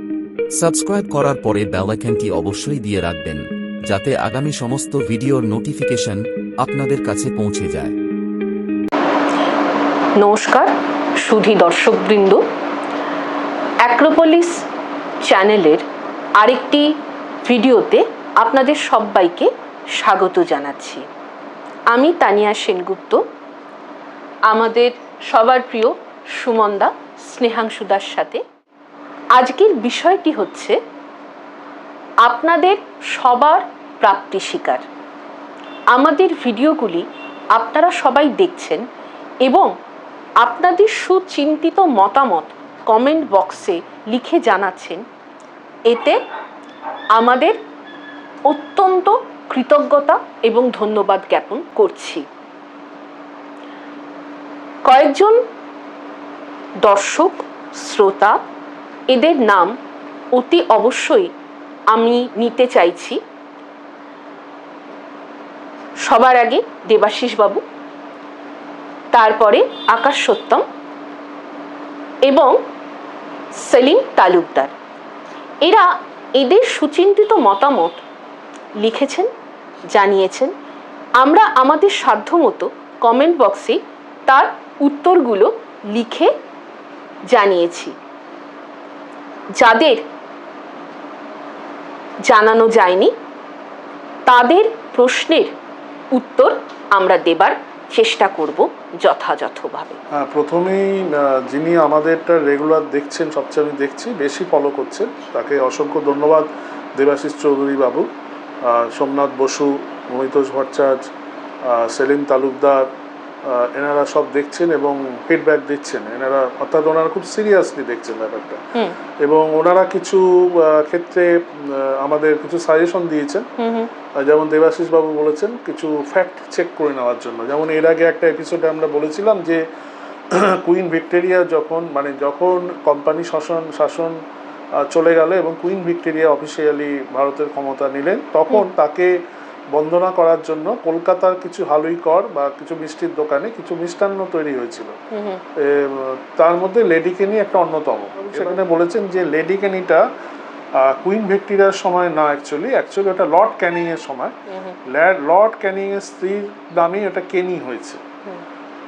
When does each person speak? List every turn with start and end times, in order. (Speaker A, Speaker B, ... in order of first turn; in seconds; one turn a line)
Speaker A: 0.6-8.0
Speaker B: 10.2-12.4
Speaker B: 13.8-14.6
Speaker B: 15.2-15.8
Speaker B: 16.4-16.9
Speaker B: 17.4-21.0
Speaker B: 21.9-23.2
Speaker B: 24.5-28.4
Speaker B: 29.3-30.8
Speaker B: 32.2-34.8
Speaker B: 35.9-38.8
Speaker B: 39.4-39.7
Speaker B: 40.4-45.0
Speaker B: 45.9-46.2
Speaker B: 47.1-47.6
Speaker B: 48.5-52.2
Speaker B: 54.9-55.4
Speaker B: 56.8-58.4
Speaker B: 59.1-59.7
Speaker B: 60.4-61.3
Speaker B: 61.9-63.2
Speaker B: 66.0-67.6
Speaker B: 69.1-70.6
Speaker B: 72.3-72.5
Speaker B: 73.6-74.7
Speaker B: 75.6-78.0
Speaker B: 78.8-79.3
Speaker B: 79.9-80.5
Speaker B: 81.2-86.3
Speaker B: 87.3-87.9
Speaker B: 89.6-90.0
Speaker B: 92.3-93.1
Speaker B: 94.3-95.5
Speaker B: 96.1-100.0
Speaker C: 100.1-108.0
Speaker C: 108.7-111.0
Speaker C: 111.7-112.9
Speaker C: 113.5-118.6
Speaker C: 119.2-123.5
Speaker B: 123.6-123.9
Speaker C: 124.2-129.6
Speaker C: 130.3-134.2
Speaker C: 134.9-139.1
Speaker C: 139.7-144.9
Speaker B: 145.1-145.4
Speaker C: 145.6-150.0
Speaker C: 150.8-154.3
Speaker C: 154.9-158.0